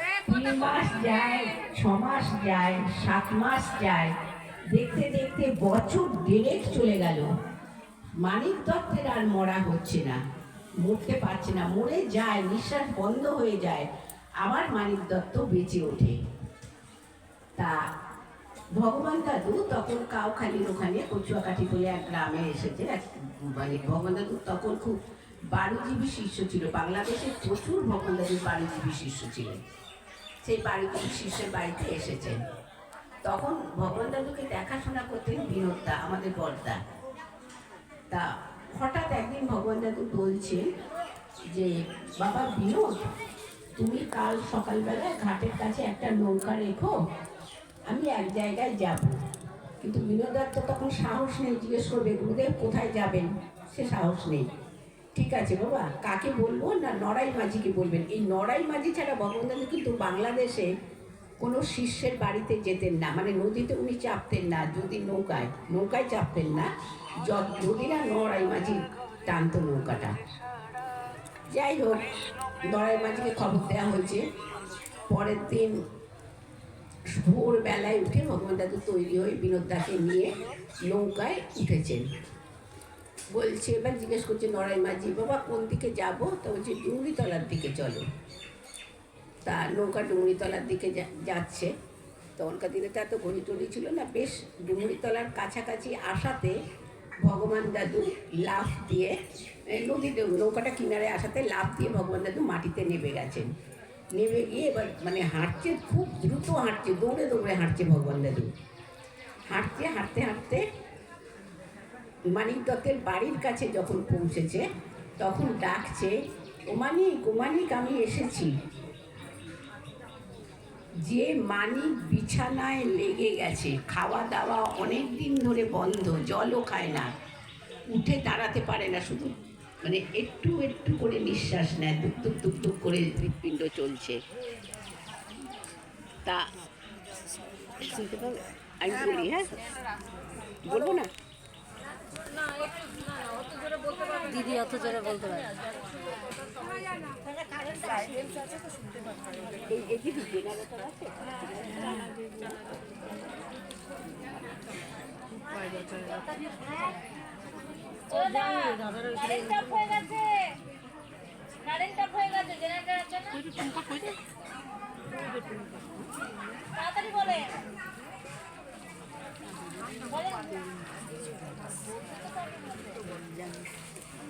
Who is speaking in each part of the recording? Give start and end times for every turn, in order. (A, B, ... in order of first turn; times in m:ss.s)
0:00.3-0:04.1 A
0:04.7-0:07.3 A
0:08.2-0:10.2 A
0:10.8-0:13.9 A
0:14.4-0:16.2 A
0:18.8-0:23.0 A
0:23.6-0:25.0 A
0:25.5-0:29.6 A
0:30.4-0:32.4 A
0:33.2-0:36.8 A
0:38.7-0:40.6 A
0:41.5-0:43.0 A
0:43.8-0:46.9 A
0:47.9-0:49.1 A
0:49.8-0:54.4 A
0:55.2-1:00.7 A
1:01.4-1:06.7 A
1:07.2-1:10.1 A
1:11.5-1:12.0 A
1:12.7-1:14.2 A
1:15.1-1:15.7 A
1:17.1-1:20.3 A
1:20.9-1:22.0 A
1:23.3-1:28.0 A
1:29.4-1:31.7 A
1:32.4-1:36.5 A
1:37.2-1:39.1 A
1:39.7-1:43.5 A
1:44.2-1:48.5 A
1:49.5-1:50.6 A
1:52.3-1:54.6 A
1:55.2-1:56.1 A
1:56.7-1:58.5 A
2:01.1-2:07.1 A
2:07.9-2:09.3 A
2:09.8-2:14.2 A
2:17.8-2:19.5 A
2:20.6-2:21.1 A
2:24.2-2:25.5 B
2:29.7-2:32.5 A
2:38.2-2:40.1 B
2:39.9-2:40.2 C
2:41.7-2:43.3 C
2:43.5-2:44.0 B
2:46.8-2:47.5 C